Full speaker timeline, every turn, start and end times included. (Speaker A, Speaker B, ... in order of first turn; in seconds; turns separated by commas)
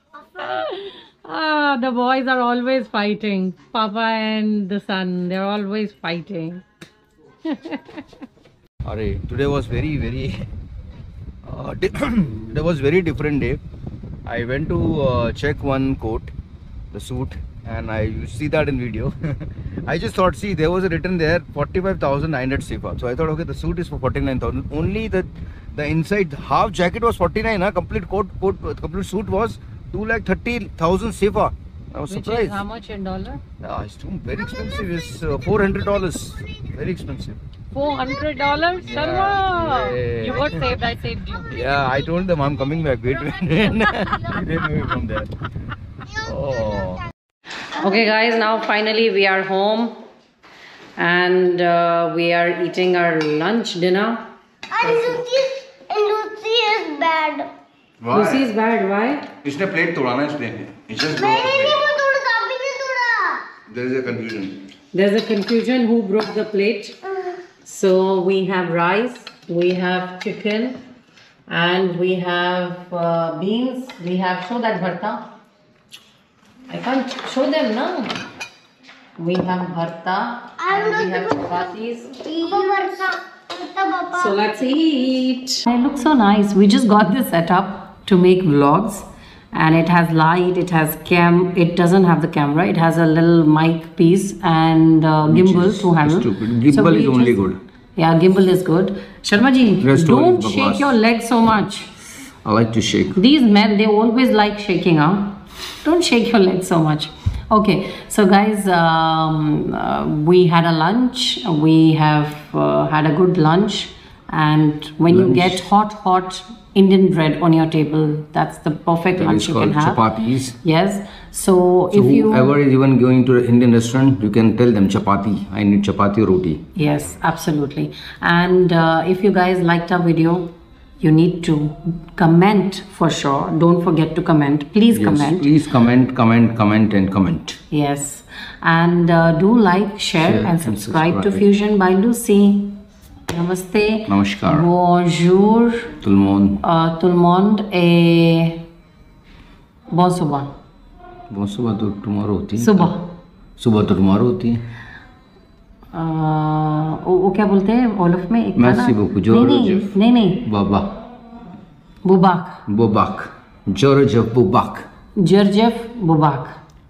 Speaker A: 0.4-6.6, Speaker A: 7.5-8.0, Speaker B: 8.8-10.4, Speaker B: 11.5-13.6, Speaker B: 14.3-16.3, Speaker B: 16.9-32.6, Speaker A: 32.1-33.4, Speaker B: 33.6-37.4, Speaker A: 37.7-41.5, Speaker B: 38.8-40.6, Speaker B: 41.5-45.3, Speaker B: 46.2-47.0, Speaker A: 47.7-50.0, Speaker A: 51.0-54.3, Speaker C: 54.7-57.5, Speaker B: 58.0-58.5, Speaker A: 58.1-59.3, Speaker B: 59.4-61.8, Speaker C: 61.2-63.5, Speaker B: 63.7-64.7, Speaker A: 64.9-67.0, Speaker A: 67.6-70.8, Speaker A: 71.5-75.3, Speaker A: 76.7-78.1, Speaker A: 79.2-83.0, Speaker C: 80.6-81.6, Speaker C: 82.3-82.9, Speaker C: 83.5-84.4, Speaker A: 84.1-97.4, Speaker B: 95.3-97.6, Speaker A: 98.0-101.9, Speaker B: 99.8-101.0, Speaker B: 102.5-103.2, Speaker A: 103.2-120.0, Speaker B: 115.1-115.7, Speaker B: 119.2-120.5, Speaker A: 120.6-122.6, Speaker B: 121.9-126.6, Speaker A: 126.8-135.5, Speaker B: 134.9-137.6, Speaker A: 137.7-145.9, Speaker B: 140.2-141.4, Speaker B: 144.1-144.7, Speaker B: 146.0-146.6, Speaker A: 146.6-148.6, Speaker A: 149.9-150.5, Speaker B: 151.3-152.9, Speaker A: 152.6-153.1, Speaker B: 153.6-154.6, Speaker A: 155.9-160.4, Speaker B: 158.6-160.9, Speaker A: 162.0-162.6, Speaker B: 162.7-164.9, Speaker A: 165.2-166.6